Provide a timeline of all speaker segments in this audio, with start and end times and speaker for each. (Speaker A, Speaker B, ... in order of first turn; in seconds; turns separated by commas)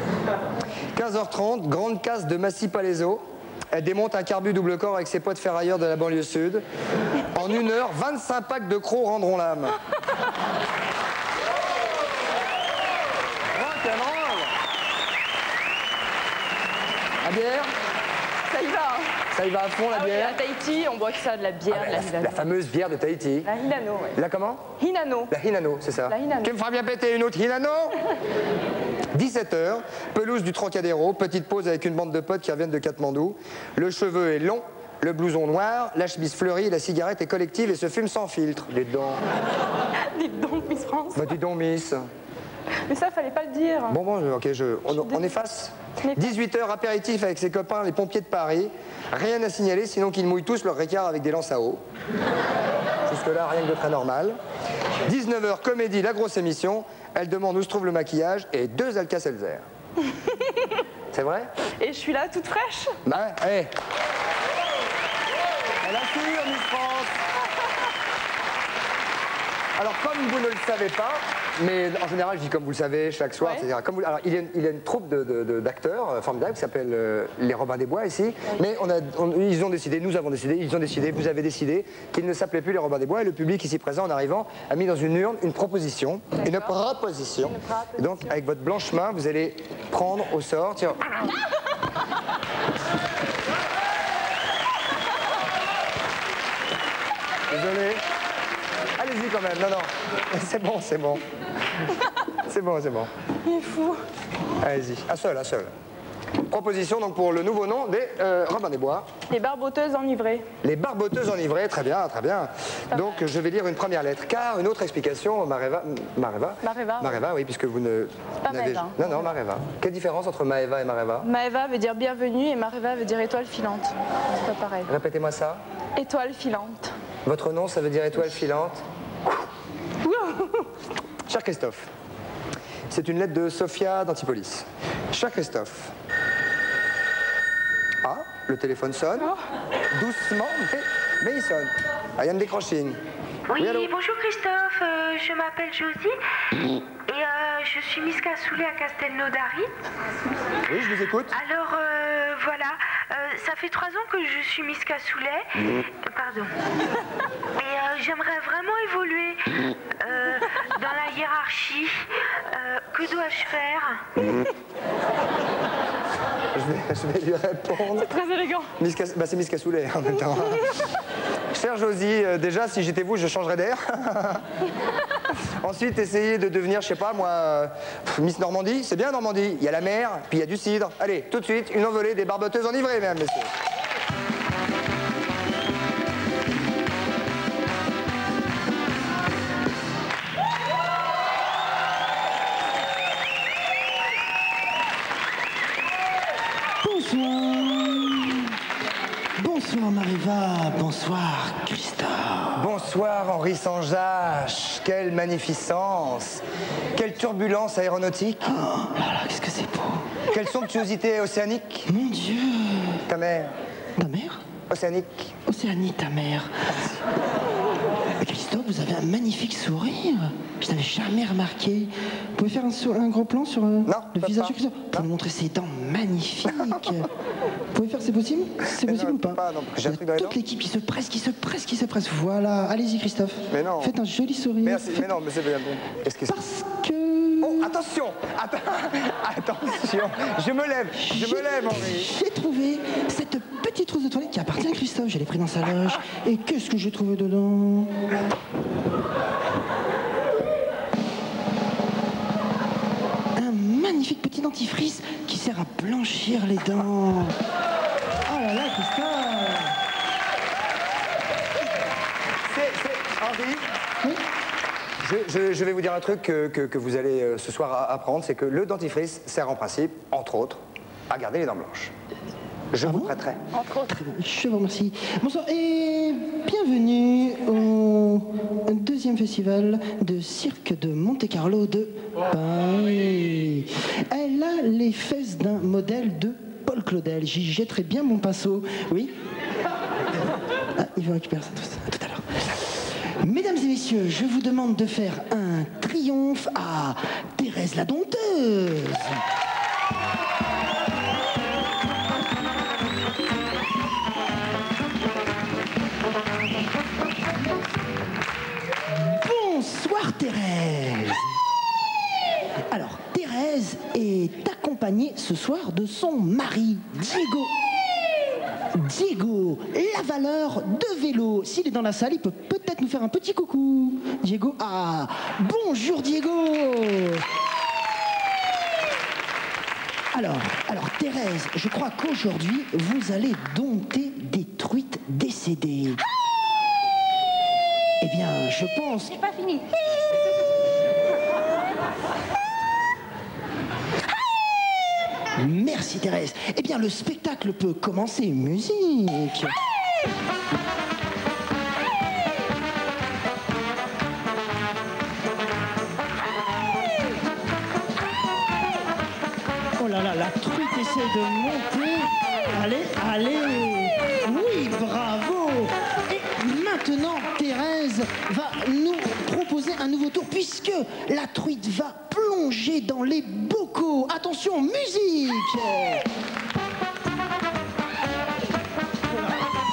Speaker A: 0.9-6.6, Speaker A: 7.3-9.8, Speaker A: 13.5-14.5, Speaker A: 17.2-17.7, Speaker B: 18.5-19.1, Speaker A: 19.3-20.4, Speaker B: 19.9-22.4, Speaker A: 21.7-23.5, Speaker B: 23.4-24.2, Speaker A: 24.1-24.6, Speaker B: 24.8-25.3, Speaker A: 25.3-28.0, Speaker B: 26.1-26.5, Speaker A: 29.1-39.2, Speaker B: 40.1-41.3, Speaker A: 41.1-42.0, Speaker B: 42.9-44.0, Speaker A: 43.9-51.8, Speaker B: 44.9-45.3, Speaker B: 46.0-46.4, Speaker A: 53.1-54.4, Speaker A: 55.0-59.6, Speaker B: 60.3-60.7, Speaker A: 61.1-61.5, Speaker B: 61.8-63.0, Speaker A: 63.0-63.7, Speaker A: 65.8-67.2, Speaker A: 69.8-91.2, Speaker B: 73.4-73.7, Speaker B: 86.4-86.8, Speaker B: 87.4-88.3, Speaker A: 97.5-98.0, Speaker A: 99.0-101.2, Speaker A: 102.4-103.1, Speaker B: 103.5-104.0, Speaker A: 104.6-105.7, Speaker A: 106.5-109.1, Speaker B: 109.3-110.5, Speaker A: 110.6-121.3, Speaker B: 112.9-113.2, Speaker B: 116.6-117.2, Speaker B: 118.4-119.2, Speaker B: 121.2-124.9, Speaker A: 124.9-125.6, Speaker B: 126.0-126.9, Speaker A: 127.2-129.4, Speaker B: 130.0-130.7, Speaker A: 131.2-131.9, Speaker A: 132.9-135.9, Speaker A: 138.0-139.3, Speaker A: 139.9-143.0, Speaker C: 143.5-146.2, Speaker A: 143.6-143.9, Speaker C: 147.1-149.7, Speaker A: 150.7-151.3, Speaker C: 151.3-156.5, Speaker C: 157.6-164.5, Speaker A: 166.5-168.1, Speaker B: 167.9-168.7, Speaker A: 168.8-170.8, Speaker A: 171.5-174.4, Speaker A: 175.3-183.5, Speaker D: 196.8-198.5, Speaker D: 199.4-202.6, Speaker A: 202.6-208.5, Speaker D: 208.4-210.1, Speaker A: 210.3-211.9, Speaker D: 211.9-213.0, Speaker A: 213.1-213.5, Speaker D: 214.0-214.4, Speaker A: 214.7-215.3, Speaker D: 215.5-216.5, Speaker A: 216.7-217.0, Speaker D: 218.2-227.1, Speaker A: 223.8-225.1, Speaker A: 226.5-226.8, Speaker D: 227.7-235.1, Speaker A: 228.7-230.4, Speaker A: 233.5-233.9, Speaker A: 234.6-236.4, Speaker D: 236.3-237.7, Speaker A: 237.4-242.1, Speaker D: 241.0-247.9, Speaker D: 253.3-257.4, Speaker D: 258.2-259.7, Speaker A: 262.4-263.7, Speaker A: 265.0-271.9, Speaker A: 272.7-273.4, Speaker D: 272.8-273.1, Speaker B: 273.6-273.9, Speaker D: 273.9-289.1, Speaker D: 290.8-299.2, Speaker D: 308.9-311.2, Speaker D: 312.7-317.5, Speaker D: 318.7-327.2, Speaker D: 330.1-336.0, Speaker D: 338.0-339.3, Speaker D: 345.4-349.5, Speaker D: 359.8-376.0, Speaker D: 379.1-379.5